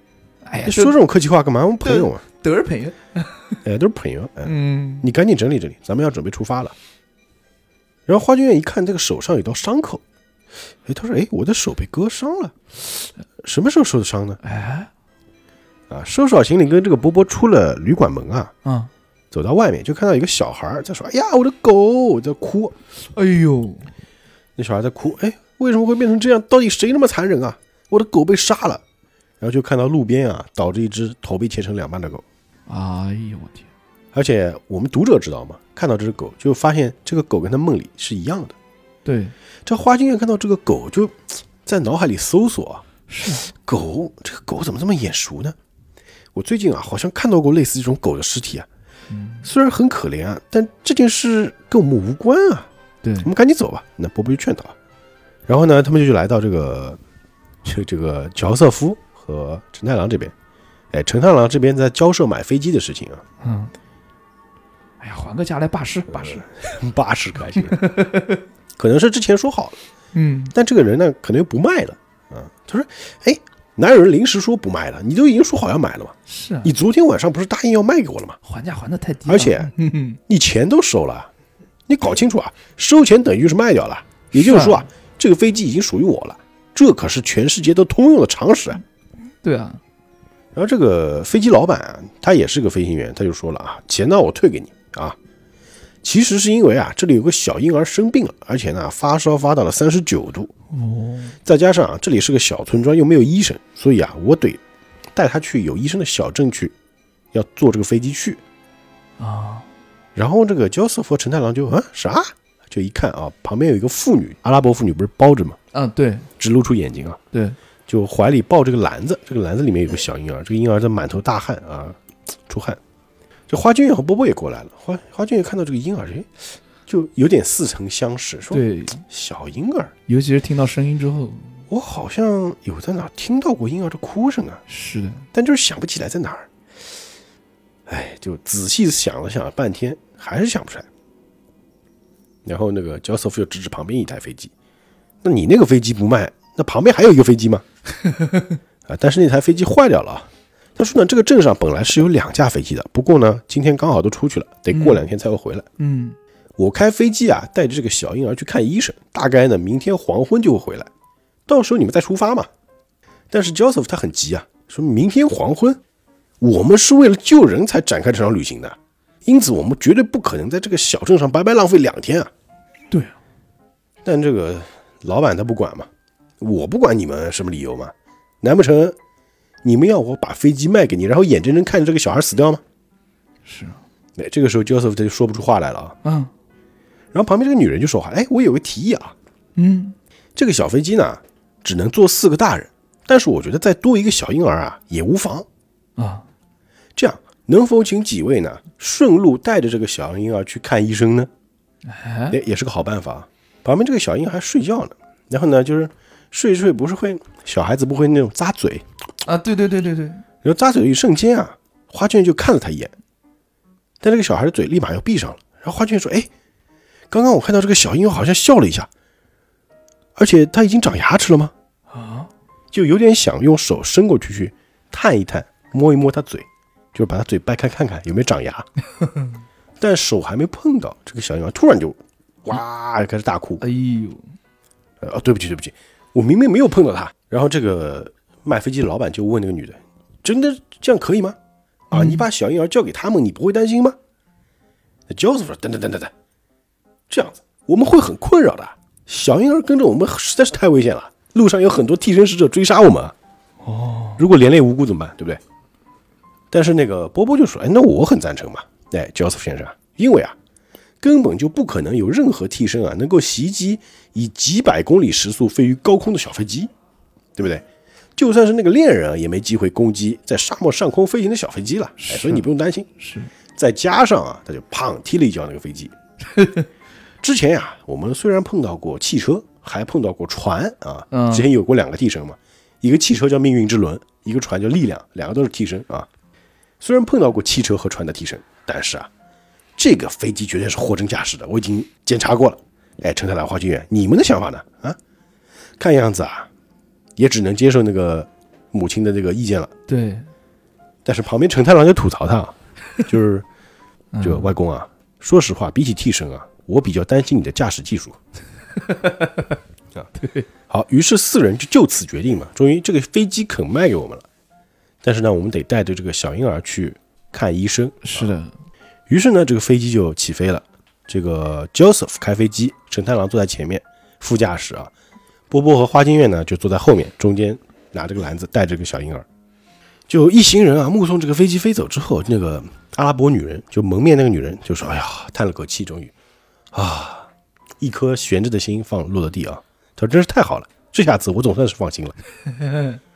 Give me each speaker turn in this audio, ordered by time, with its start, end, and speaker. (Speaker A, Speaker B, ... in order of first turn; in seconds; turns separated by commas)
Speaker A: 0.4-1.0, Speaker B: 0.6-2.2, Speaker A: 1.8-3.6, Speaker B: 3.6-6.7, Speaker A: 4.4-5.1, Speaker B: 8.1-10.0, Speaker B: 10.8-12.6, Speaker B: 13.4-14.4, Speaker A: 14.4-14.9, Speaker B: 15.9-18.5, Speaker A: 18.6-18.9, Speaker B: 19.3-22.7, Speaker A: 23.1-23.9, Speaker B: 24.6-28.8, Speaker B: 29.4-32.2, Speaker A: 32.7-33.7, Speaker B: 34.1-38.5, Speaker A: 39.0-39.3, Speaker B: 39.6-42.8, Speaker A: 43.1-43.5, Speaker B: 43.5-45.6, Speaker B: 46.3-48.7, Speaker A: 49.1-49.5, Speaker B: 49.4-52.7, Speaker A: 53.0-53.3, Speaker B: 53.2-54.7, Speaker B: 55.5-57.0, Speaker B: 57.6-60.3, Speaker B: 60.9-63.2, Speaker A: 63.4-63.7, Speaker A: 65.0-66.5, Speaker B: 66.1-67.8, Speaker A: 67.5-68.4, Speaker B: 68.8-69.8, Speaker A: 70.1-70.5, Speaker B: 70.5-78.4, Speaker A: 76.3-76.7, Speaker A: 78.4-80.2, Speaker B: 79.3-79.7, Speaker B: 80.3-81.3, Speaker B: 81.9-88.8, Speaker A: 84.3-84.8, Speaker A: 89.4-89.8, Speaker B: 90.5-95.2, Speaker B: 96.0-100.5, Speaker A: 100.7-101.4, Speaker B: 101.4-104.6, Speaker B: 105.1-106.7, Speaker B: 107.3-108.4, Speaker A: 109.2-109.7, Speaker B: 110.2-115.6, Speaker A: 115.7-116.3, Speaker B: 116.4-117.2, Speaker A: 117.3-117.6, Speaker B: 117.9-122.8, Speaker B: 123.5-126.3, Speaker B: 126.9-129.9, Speaker A: 128.5-129.0, Speaker A: 130.1-131.6, Speaker B: 131.7-134.6, Speaker A: 134.7-135.2, Speaker B: 135.3-136.5, Speaker B: 137.9-140.9, Speaker B: 142.4-144.5, Speaker B: 145.2-147.6, Speaker A: 148.0-148.6, Speaker B: 148.8-155.7, Speaker A: 154.7-155.1, Speaker A: 155.8-156.2, Speaker B: 156.6-160.9, Speaker B: 161.5-162.5, Speaker B: 163.3-165.8, Speaker B: 166.4-172.3, Speaker B: 174.0-175.9, Speaker B: 176.4-178.9, Speaker B: 179.6-182.6, Speaker A: 183.4-183.8, Speaker B: 184.2-185.9, Speaker A: 186.0-186.3, Speaker B: 187.1-189.1, Speaker A: 189.6-189.9, Speaker B: 190.3-195.4, Speaker A: 195.9-196.2, Speaker B: 196.9-201.3, Speaker A: 201.8-202.4, Speaker B: 202.3-208.8, Speaker A: 209.2-210.2, Speaker B: 210.4-212.9, Speaker B: 214.0-216.3, Speaker B: 217.1-218.9, Speaker B: 220.2-221.5, Speaker A: 221.9-222.3, Speaker B: 222.7-228.7, Speaker B: 229.8-233.6, Speaker A: 233.6-234.3, Speaker B: 235.0-241.4, Speaker B: 241.9-244.0, Speaker A: 241.9-242.2, Speaker B: 245.1-246.1, Speaker B: 247.1-253.1, Speaker A: 253.6-254.2, Speaker B: 254.2-255.4, Speaker B: 256.5-260.4, Speaker B: 261.0-266.7, Speaker B: 267.4-267.6, Speaker B: 268.2-272.9, Speaker A: 272.0-272.5, Speaker A: 273.0-273.3, Speaker B: 273.6-275.9, Speaker A: 276.3-276.6, Speaker B: 277.2-286.1, Speaker A: 281.1-281.5, Speaker B: 286.8-289.1, Speaker B: 289.8-295.0, Speaker B: 295.8-296.5, Speaker B: 297.2-299.7, Speaker A: 299.9-300.3, Speaker B: 301.0-303.4, Speaker A: 304.1-304.5, Speaker B: 304.2-308.2, Speaker A: 308.8-309.6, Speaker A: 310.2-310.5, Speaker B: 310.7-314.2, Speaker B: 315.0-318.3, Speaker A: 318.0-318.5, Speaker B: 319.1-324.9, Speaker B: 325.5-329.2, Speaker B: 330.1-336.1, Speaker B: 336.7-337.3, Speaker B: 337.8-342.1, Speaker A: 342.6-343.0